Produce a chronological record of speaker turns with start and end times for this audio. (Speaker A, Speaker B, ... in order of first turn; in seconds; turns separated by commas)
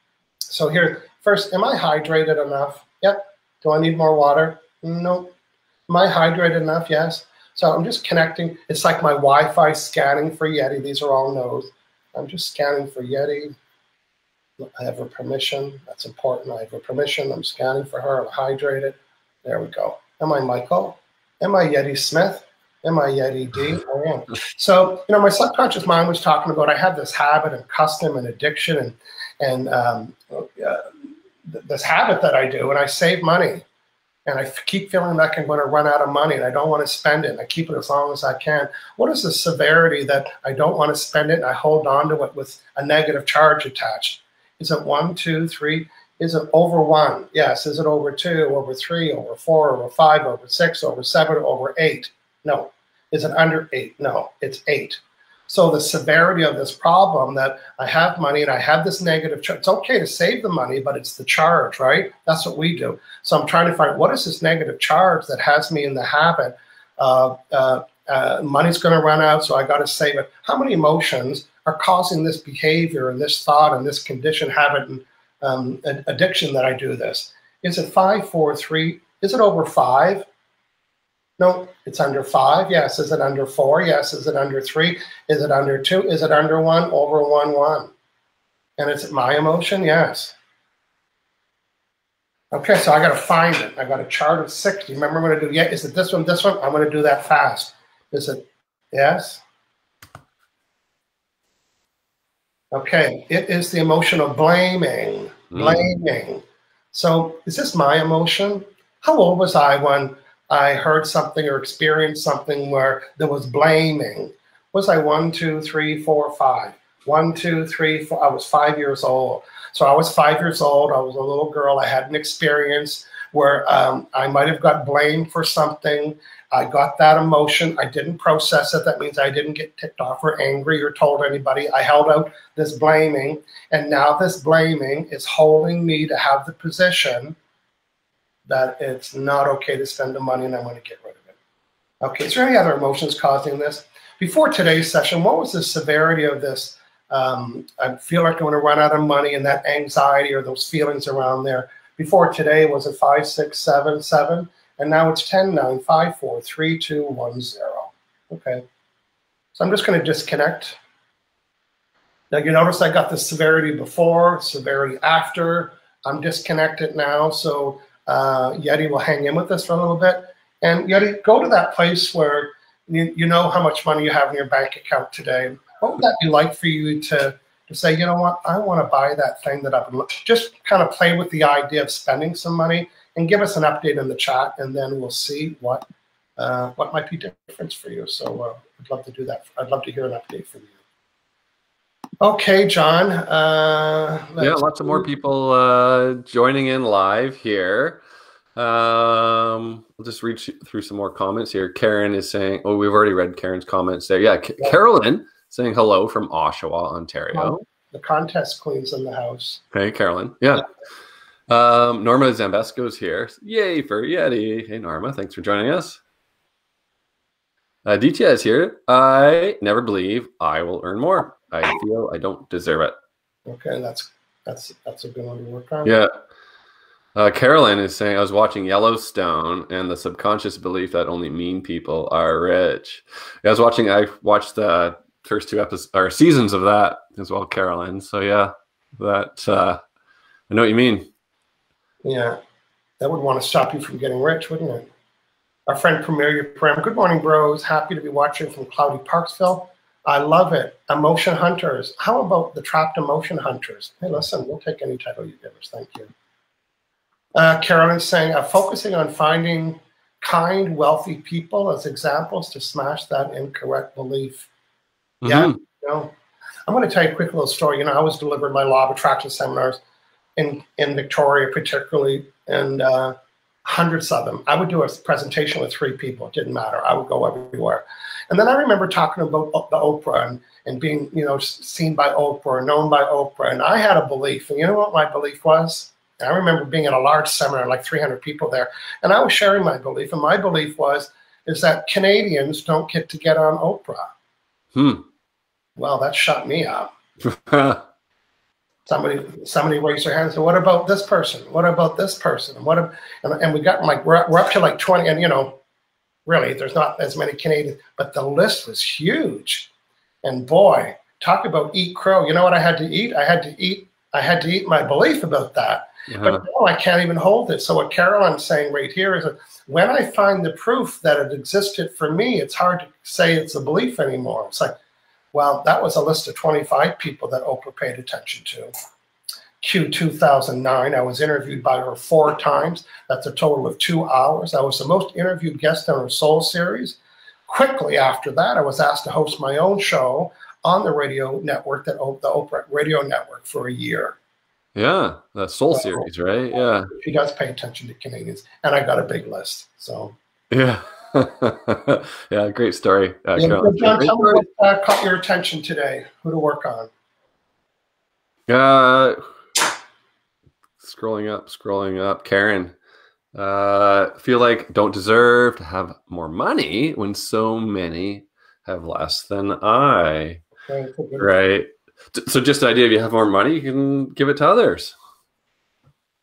Speaker A: 0.5-5.3, Speaker A: 5.9-13.5, Speaker A: 14.6-30.9, Speaker A: 31.5-33.6, Speaker A: 34.2-80.2, Speaker A: 81.4-87.9, Speaker A: 88.8-90.3, Speaker A: 92.5-99.4, Speaker A: 102.7-137.3, Speaker B: 105.5-105.8, Speaker A: 138.5-141.3, Speaker A: 142.0-158.6, Speaker A: 159.5-160.8, Speaker A: 162.3-185.8, Speaker A: 186.4-190.7, Speaker A: 192.2-195.1, Speaker B: 194.4-198.0, Speaker B: 198.6-207.6, Speaker A: 207.3-209.6, Speaker B: 209.7-210.6, Speaker B: 211.5-216.0, Speaker B: 217.8-222.9, Speaker A: 223.5-225.9, Speaker B: 225.8-226.1, Speaker B: 227.1-239.8, Speaker B: 240.5-241.1, Speaker A: 242.0-242.4, Speaker A: 243.0-244.9, Speaker A: 245.7-256.1, Speaker A: 257.4-264.5, Speaker B: 265.2-265.6, Speaker A: 265.2-266.1, Speaker A: 266.7-269.8, Speaker A: 270.4-294.1, Speaker B: 294.7-295.1, Speaker A: 295.8-296.9, Speaker B: 297.2-297.8, Speaker A: 298.9-305.6, Speaker A: 306.3-309.7, Speaker A: 310.2-324.7, Speaker B: 316.1-316.4, Speaker A: 325.3-328.7, Speaker A: 329.6-337.0, Speaker A: 337.5-344.2, Speaker B: 344.7-346.9, Speaker A: 345.7-346.1, Speaker A: 346.9-350.1, Speaker B: 350.5-354.4, Speaker A: 353.4-356.9, Speaker B: 358.5-359.2, Speaker B: 360.8-362.7, Speaker B: 363.3-370.4, Speaker A: 370.7-371.3, Speaker B: 371.2-374.9